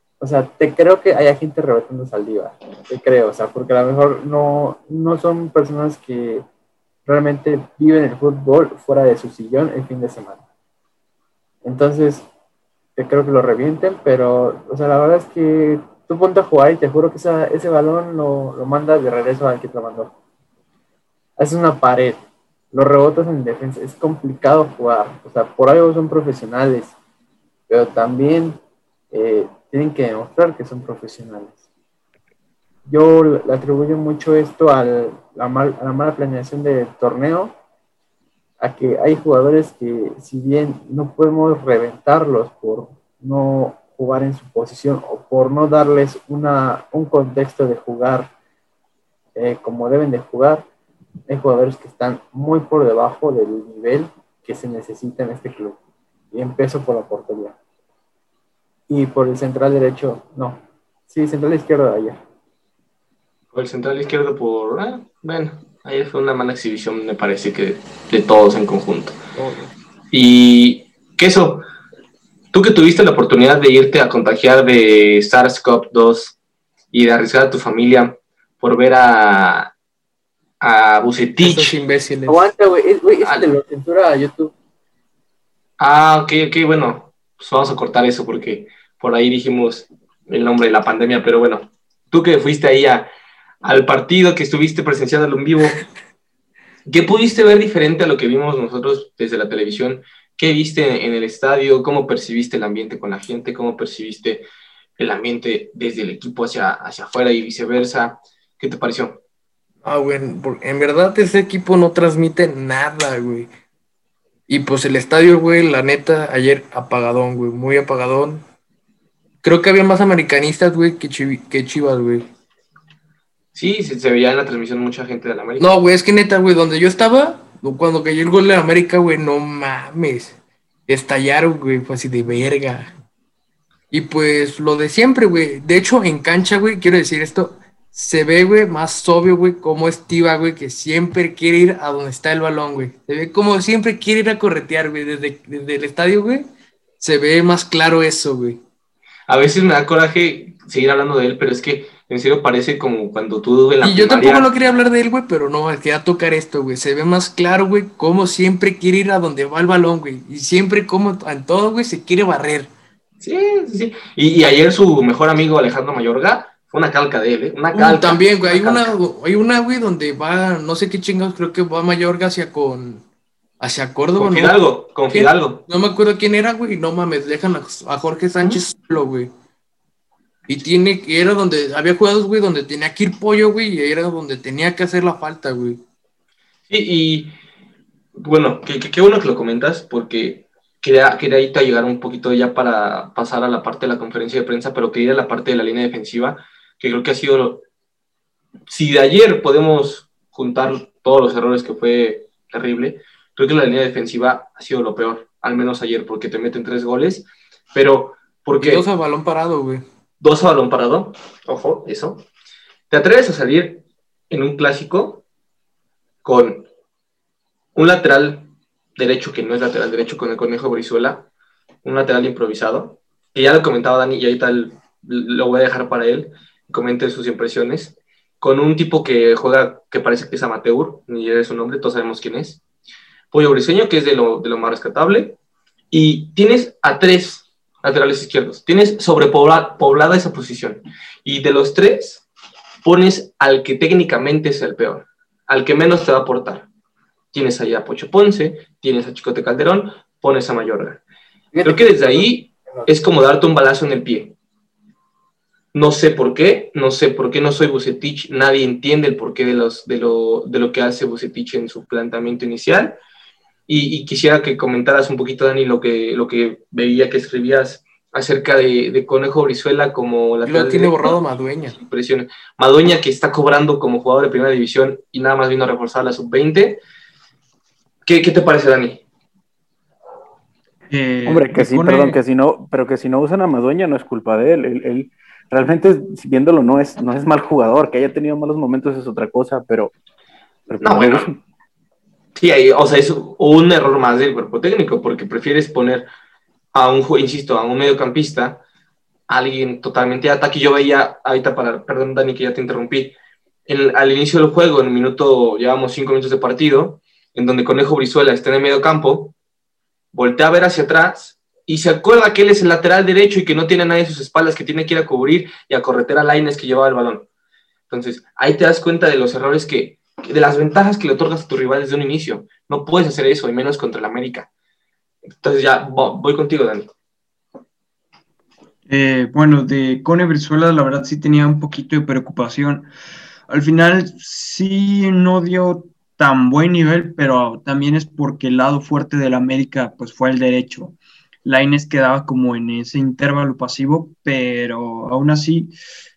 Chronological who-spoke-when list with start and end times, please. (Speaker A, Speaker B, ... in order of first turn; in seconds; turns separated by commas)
Speaker A: 0.2-6.5, Speaker A: 7.1-10.4, Speaker A: 11.6-12.3, Speaker A: 13.0-20.1, Speaker A: 21.4-22.2, Speaker A: 22.7-26.9, Speaker A: 27.7-28.6, Speaker A: 29.1-31.6, Speaker A: 32.9-37.5, Speaker A: 38.6-48.3, Speaker A: 49.4-50.7, Speaker A: 51.3-55.8, Speaker A: 56.3-57.6, Speaker A: 58.9-62.2, Speaker B: 63.5-69.2, Speaker A: 69.3-69.7, Speaker B: 70.1-71.7, Speaker B: 72.5-76.4, Speaker B: 76.9-79.7, Speaker B: 80.6-81.8, Speaker C: 81.4-82.5, Speaker A: 82.3-84.5, Speaker B: 85.8-93.1, Speaker B: 93.6-95.8, Speaker B: 96.9-104.5, Speaker B: 105.0-109.2, Speaker C: 109.8-113.5, Speaker C: 114.5-118.5, Speaker C: 119.4-122.3, Speaker B: 123.5-125.7, Speaker C: 125.6-132.9, Speaker C: 133.9-146.5, Speaker C: 147.0-148.6, Speaker B: 149.3-154.5, Speaker C: 153.8-162.7, Speaker B: 163.2-168.9, Speaker C: 167.7-173.1, Speaker C: 173.6-174.6, Speaker B: 174.2-175.6, Speaker C: 175.1-179.3, Speaker C: 180.5-185.8, Speaker B: 186.7-187.3, Speaker B: 188.2-197.6, Speaker B: 198.7-208.8, Speaker C: 208.6-209.8, Speaker B: 210.2-212.2, Speaker B: 212.9-215.2, Speaker B: 216.2-216.7, Speaker B: 217.8-221.3, Speaker B: 221.8-232.6, Speaker B: 233.3-235.4, Speaker B: 235.9-242.3, Speaker B: 242.8-246.7, Speaker B: 247.3-251.0, Speaker A: 251.5-252.9, Speaker B: 251.6-254.3, Speaker B: 255.7-263.0, Speaker B: 263.7-276.8, Speaker C: 270.4-271.8, Speaker B: 278.1-279.0, Speaker D: 280.9-282.2, Speaker E: 281.3-289.9, Speaker E: 290.7-291.4, Speaker B: 290.8-291.3, Speaker B: 292.4-296.1, Speaker B: 296.7-298.6, Speaker B: 299.3-303.1, Speaker B: 303.7-309.4, Speaker B: 310.1-317.3, Speaker B: 317.9-324.5, Speaker B: 325.4-326.9, Speaker D: 328.9-332.9, Speaker D: 333.5-345.7